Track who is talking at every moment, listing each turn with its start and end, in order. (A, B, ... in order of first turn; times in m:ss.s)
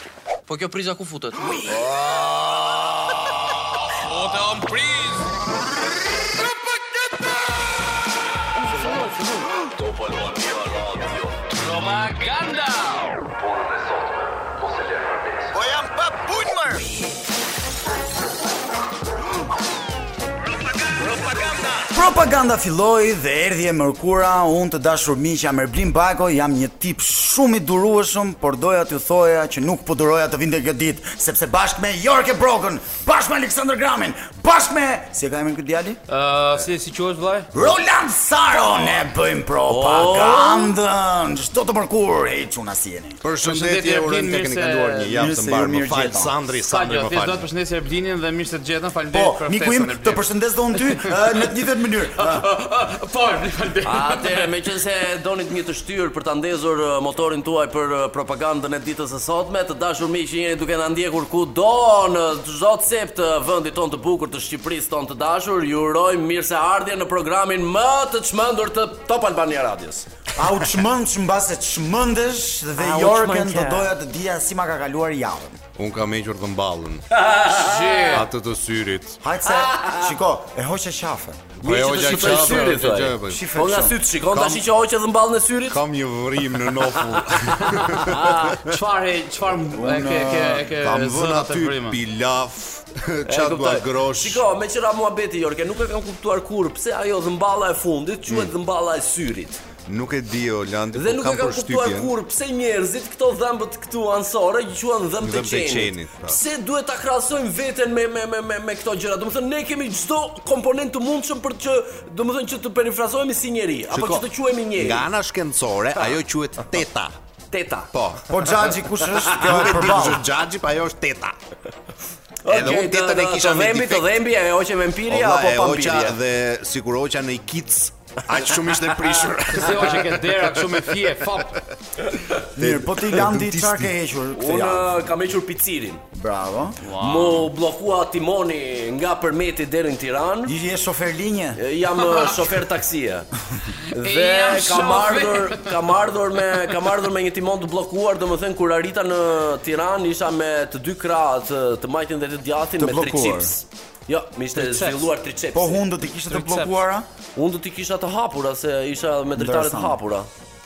0:00.5-0:03.1 A
0:04.0-0:05.3 B
0:04.3-0:04.6 A
0:08.7-0:15.5 A
0:15.5-0:17.0 C
0:21.0-0:21.8 A
0:21.8-0:36.0 C
0:36.1-0:37.5 B
0:37.5-0:43.2 C
0:39.7-0:40.7 A
0:43.2-0:47.4 D
0:43.4-0:45.3 B
0:45.1-0:46.3 C
0:46.6-0:50.2 B
0:49.1-0:52.5 C
0:50.9-0:51.3 B
0:52.2-0:54.5 B
0:53.8-1:10.1 A
1:10.3-1:15.6 C
1:12.8-1:13.9 A
1:15.8-1:17.0 D
1:17.1-1:18.2 A
1:17.5-1:18.3 B
1:18.1-1:19.2 D
1:19.2-1:21.4 C
1:19.5-1:20.1 A
1:21.6-1:23.4 D
1:21.6-1:25.8 A
1:23.2-1:24.0 C
1:24.3-1:24.6 D
1:25.7-1:28.8 D
1:27.5-1:28.6 A
1:28.6-1:32.0 B
1:29.7-1:30.7 C
1:30.7-1:34.4 D
1:33.3-1:39.6 A
1:38.3-1:38.5 D
1:39.9-1:42.1 D
1:40.9-1:55.1 A
1:45.2-1:46.4 D
1:53.9-1:54.2 D
1:54.8-1:57.1 D
1:57.5-1:57.9 A
1:57.9-1:58.3 D
1:58.3-2:00.2 C
1:59.1-1:59.4 A
1:59.3-2:01.3 D
2:02.4-2:06.2 A
2:02.5-2:04.1 D
2:05.1-2:11.1 D
2:09.5-2:11.6 B
2:12.6-2:14.9 C
2:12.6-2:13.9 D
2:14.3-2:16.0 A
2:16.1-2:16.8 C
2:16.8-2:17.5 B
2:17.0-2:20.6 A
2:20.5-2:21.6 C
2:21.6-2:23.3 A
2:23.7-2:25.7 B
2:23.9-2:35.8 A
2:32.8-2:33.5 C
2:34.6-2:35.0 B
2:35.5-2:37.1 C
2:36.3-2:36.8 B
2:37.4-2:40.3 A
2:39.4-2:40.0 C